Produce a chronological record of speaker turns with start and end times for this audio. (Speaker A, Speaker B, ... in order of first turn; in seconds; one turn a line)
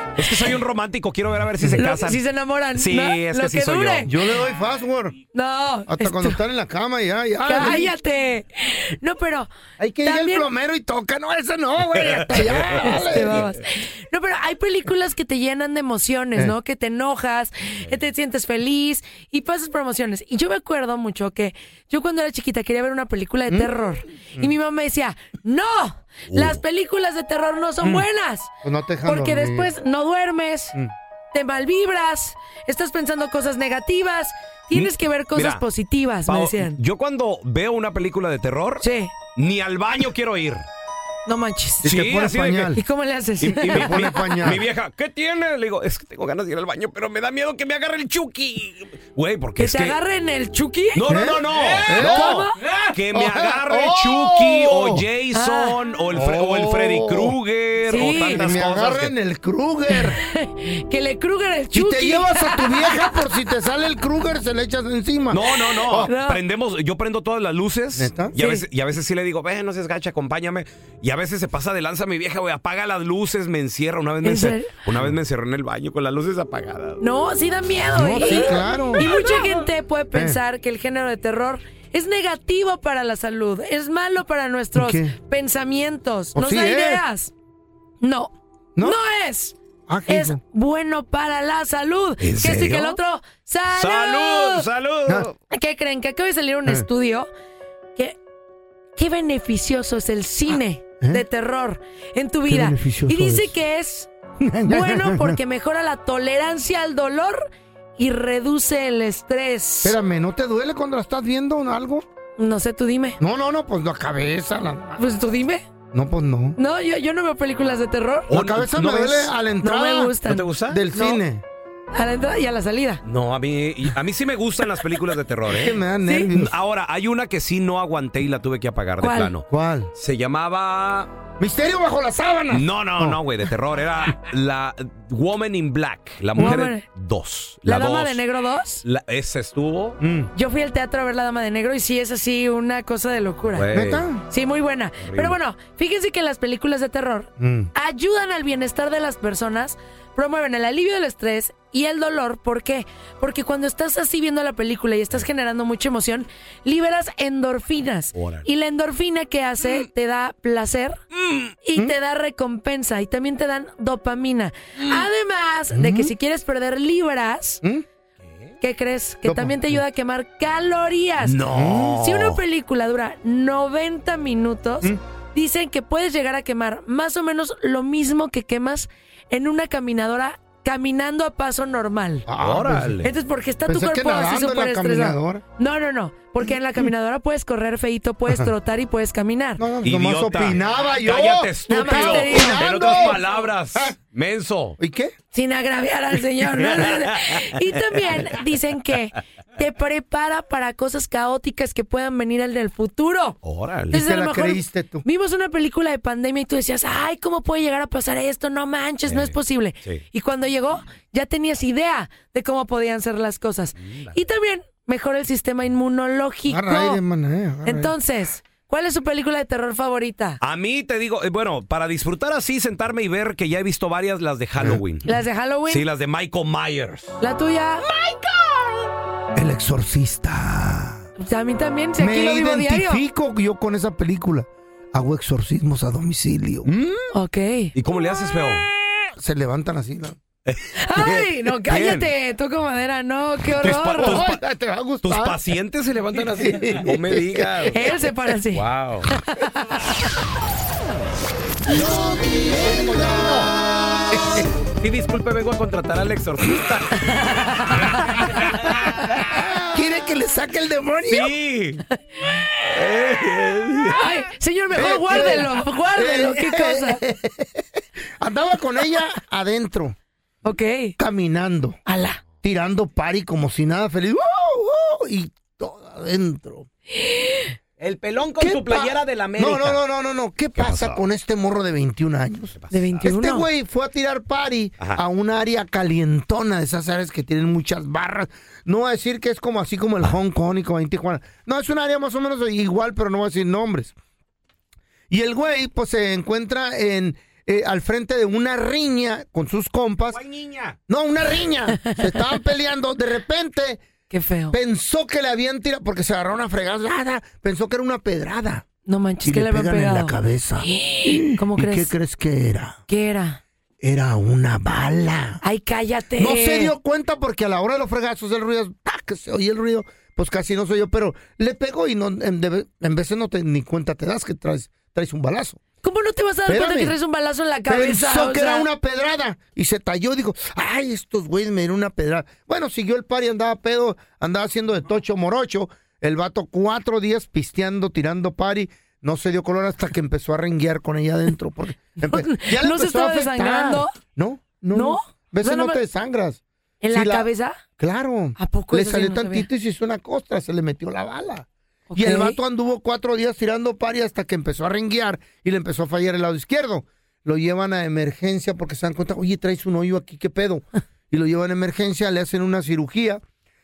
Speaker A: 0.2-2.2
Speaker B: 1.8-4.1
Speaker A: 2.8-4.1
Speaker C: 4.0-5.2
Speaker B: 5.3-6.4
Speaker C: 5.9-7.9
Speaker B: 7.5-9.5
Speaker C: 9.8-13.5
Speaker B: 10.0-10.5
Speaker A: 12.1-12.8
Speaker B: 12.8-28.5
Speaker A: 26.3-26.6
Speaker C: 28.6-29.7
Speaker B: 29.1-30.8
Speaker B: 31.3-36.8
Speaker A: 34.7-35.6
Speaker A: 36.3-38.8
Speaker B: 38.8-39.1
Speaker A: 39.4-40.6
Speaker B: 41.2-41.9
Speaker C: 41.8-42.8
Speaker A: 41.9-42.8
Speaker B: 42.8-44.4
Speaker A: 43.4-50.0
Speaker C: 43.6-44.6
Speaker B: 49.6-51.1
Speaker A: 50.9-59.1
Speaker C: 51.1-52.4
Speaker B: 51.9-52.6
Speaker C: 53.1-55.0
Speaker B: 55.3-55.8
Speaker C: 56.1-57.4
Speaker B: 57.9-58.4
Speaker C: 58.4-60.2
Speaker B: 59.9-63.1
Speaker C: 61.7-66.1
Speaker A: 65.3-77.0
Speaker B: 66.0-66.4
Speaker C: 68.0-68.3
Speaker B: 68.3-68.6
Speaker B: 74.2-74.7
Speaker B: 77.0-87.3
Speaker C: 78.0-79.1
Speaker C: 80.1-80.4
Speaker C: 84.8-85.1
Speaker C: 86.3-87.0
Speaker B: 88.0-89.5
Speaker C: 89.9-90.4
Speaker B: 90.1-94.7
Speaker A: 92.2-93.0
Speaker A: 93.7-95.3
Speaker B: 95.5-97.3
Speaker B: 99.0-104.1
Speaker C: 102.5-103.5
Speaker C: 104.4-105.4
Speaker B: 104.7-107.5
Speaker B: 108.0-110.0
Speaker C: 109.8-112.1
Speaker B: 112.4-113.2
Speaker C: 113.2-115.0
Speaker B: 115.0-115.6
Speaker C: 115.9-116.6
Speaker B: 116.6-118.3
Speaker A: 118.3-119.3
Speaker C: 118.3-121.4
Speaker B: 119.6-121.2
Speaker A: 120.2-120.8
Speaker B: 121.9-123.0
Speaker A: 123.0-125.8
Speaker C: 125.5-126.5
Speaker B: 126.0-126.3
Speaker A: 126.3-131.1
Speaker B: 129.0-129.3
Speaker C: 129.5-129.9
Speaker C: 131.4-133.2
Speaker A: 132.5-138.2
Speaker B: 136.4-136.8
Speaker B: 137.7-138.8
Speaker A: 138.8-140.0
Speaker C: 140.0-140.3
Speaker B: 140.3-143.7
Speaker A: 143.5-144.1
Speaker C: 143.7-144.2
Speaker B: 144.3-161.0
Speaker A: 145.0-145.4
Speaker C: 147.4-147.7
Speaker A: 158.1-158.5
Speaker A: 161.1-161.5
Speaker B: 161.6-167.6
Speaker C: 165.7-166.1
Speaker B: 168.6-171.4
Speaker C: 169.2-169.8
Speaker A: 171.2-172.4
Speaker C: 171.5-172.0
Speaker B: 171.9-182.2
Speaker C: 182.3-183.0
Speaker A: 182.4-183.1
Speaker B: 183.0-189.6
Speaker C: 183.7-185.4
Speaker C: 189.6-193.9
Speaker A: 189.8-194.8
Speaker B: 191.7-193.2
Speaker C: 194.8-195.1
Speaker B: 195.3-203.4
Speaker A: 196.6-197.4
Speaker A: 203.4-204.0
Speaker C: 203.9-205.0
Speaker B: 203.9-217.0
Speaker A: 209.1-210.0
Speaker A: 213.8-214.1
Speaker C: 216.5-217.9
Speaker B: 217.6-220.4
Speaker A: 220.4-225.1
Speaker B: 225.1-225.8
Speaker A: 225.7-227.2
Speaker B: 227.2-227.8
Speaker A: 228.0-228.3
Speaker C: 229.3-231.1
Speaker B: 231.2-233.0
Speaker C: 232.0-236.7
Speaker A: 236.7-237.0
Speaker B: 237.1-237.7
Speaker A: 237.8-238.7
Speaker C: 239.2-240.2
Speaker A: 240.5-242.1
Speaker B: 240.8-244.2
Speaker A: 243.6-244.4
Speaker C: 244.0-245.4
Speaker A: 245.0-247.8
Speaker C: 246.3-247.5
Speaker B: 247.7-249.5
Speaker A: 248.5-249.1
Speaker A: 251.8-253.5
Speaker A: 254.8-257.0
Speaker A: 258.1-259.6
Speaker C: 259.6-261.3
Speaker A: 261.1-261.8
Speaker A: 262.6-264.0
Speaker B: 263.9-267.0
Speaker C: 264.7-267.6
Speaker C: 268.2-270.0
Speaker B: 270.4-271.0
Speaker C: 271.0-271.8
Speaker B: 271.9-272.2
Speaker C: 272.4-276.7
Speaker B: 276.9-277.5
Speaker A: 277.8-279.8
Speaker C: 278.4-293.9
Speaker A: 280.6-281.0
Speaker A: 282.5-283.1
Speaker B: 282.7-283.5
Speaker C: 295.1-300.2
Speaker A: 300.1-300.8
Speaker C: 300.9-303.8
Speaker B: 304.1-304.6
Speaker C: 304.5-308.6
Speaker B: 308.9-311.9
Speaker C: 309.2-312.8
Speaker B: 312.9-313.4
Speaker C: 313.8-315.4
Speaker B: 315.4-316.7
Speaker C: 316.2-325.6
Speaker B: 325.8-328.7
Speaker C: 326.5-326.9
Speaker C: 327.7-346.4
Speaker B: 342.0-343.9
Speaker B: 344.7-345.8
Speaker B: 346.8-347.6
Speaker C: 346.9-363.2
Speaker B: 348.4-349.5
Speaker B: 351.9-352.4